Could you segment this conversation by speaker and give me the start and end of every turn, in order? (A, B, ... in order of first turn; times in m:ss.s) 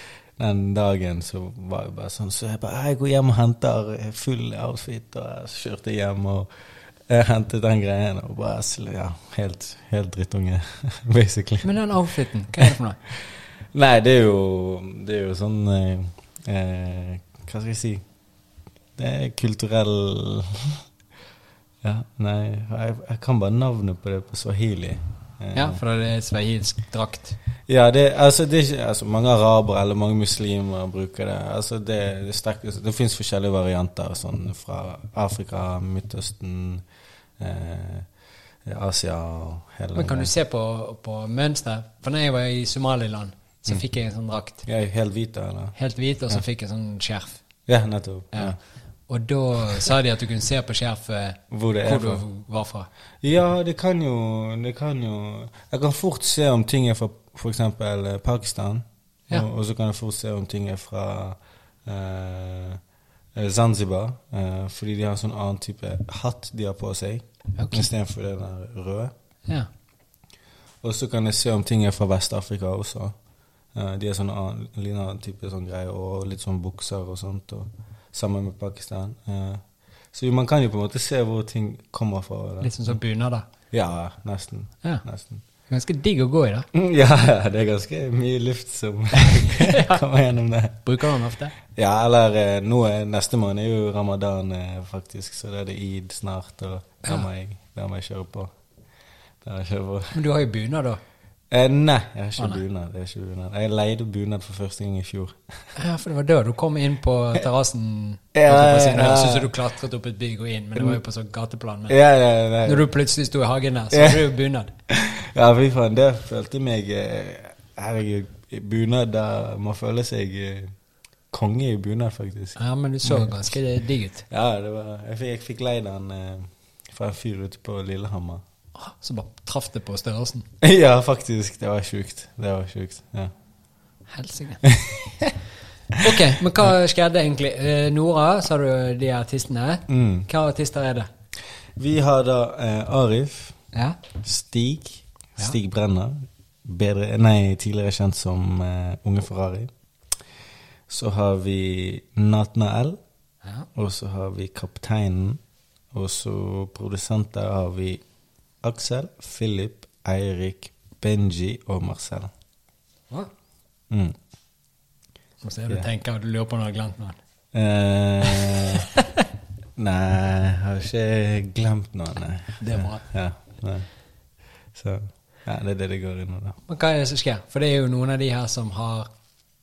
0:00.4-0:06.5 A
0:07.1-0:11.7 A
0:11.6-0:13.0 B
0:13.7-0:18.0 A
0:19.0-0:20.8 A
0:21.8-0:25.8 A
0:25.5-0:27.4 B
0:27.7-0:36.8 A
0:37.4-0:38.1 A
0:38.6-0:40.3 A
0:39.9-0:44.6 B
0:44.6-0:45.7 A
0:45.7-0:47.4 B
0:47.7-0:48.6 A
0:49.1-0:52.9 B
0:51.5-0:52.2 A
0:53.2-1:02.8 A
1:03.3-1:09.1 A
1:07.6-1:07.9 B
1:10.8-1:13.1 A
1:13.7-1:23.0 A
1:22.6-1:23.4 B
1:23.7-1:25.4 A
1:25.7-1:26.7 B
1:26.7-1:30.9 A
1:29.2-1:30.0 B
1:30.8-1:31.5 B
1:31.7-1:38.5 A
1:39.4-1:40.2 A
1:40.1-1:41.0 B
1:41.5-1:45.6 A
1:45.7-1:51.9 B
1:48.3-1:49.5 A
1:51.9-1:52.9 A
1:52.6-1:54.7 B
1:53.9-1:54.2 A
1:54.9-2:00.7 A
2:01.3-2:03.3 A
2:02.6-2:04.2 B
2:04.3-2:08.4 A
2:08.8-2:10.5 B
2:10.6-2:13.3 A
2:14.1-2:14.6 B
2:14.6-2:15.4 A
2:16.0-2:21.1 B
2:19.9-2:20.3 A
2:21.8-2:23.6 A
2:23.7-2:24.0 B
2:24.2-2:29.7 A
2:30.9-2:33.0 A
2:33.7-2:35.4 A
2:35.9-2:38.0 A
2:38.6-2:42.3 A
2:43.9-2:44.2 A
2:45.4-2:47.2 B
2:47.5-2:48.9 A
2:48.2-2:49.2 B
2:49.8-2:53.9 A
2:52.6-2:53.0 B
2:54.7-2:56.6 A
2:56.7-2:59.1 B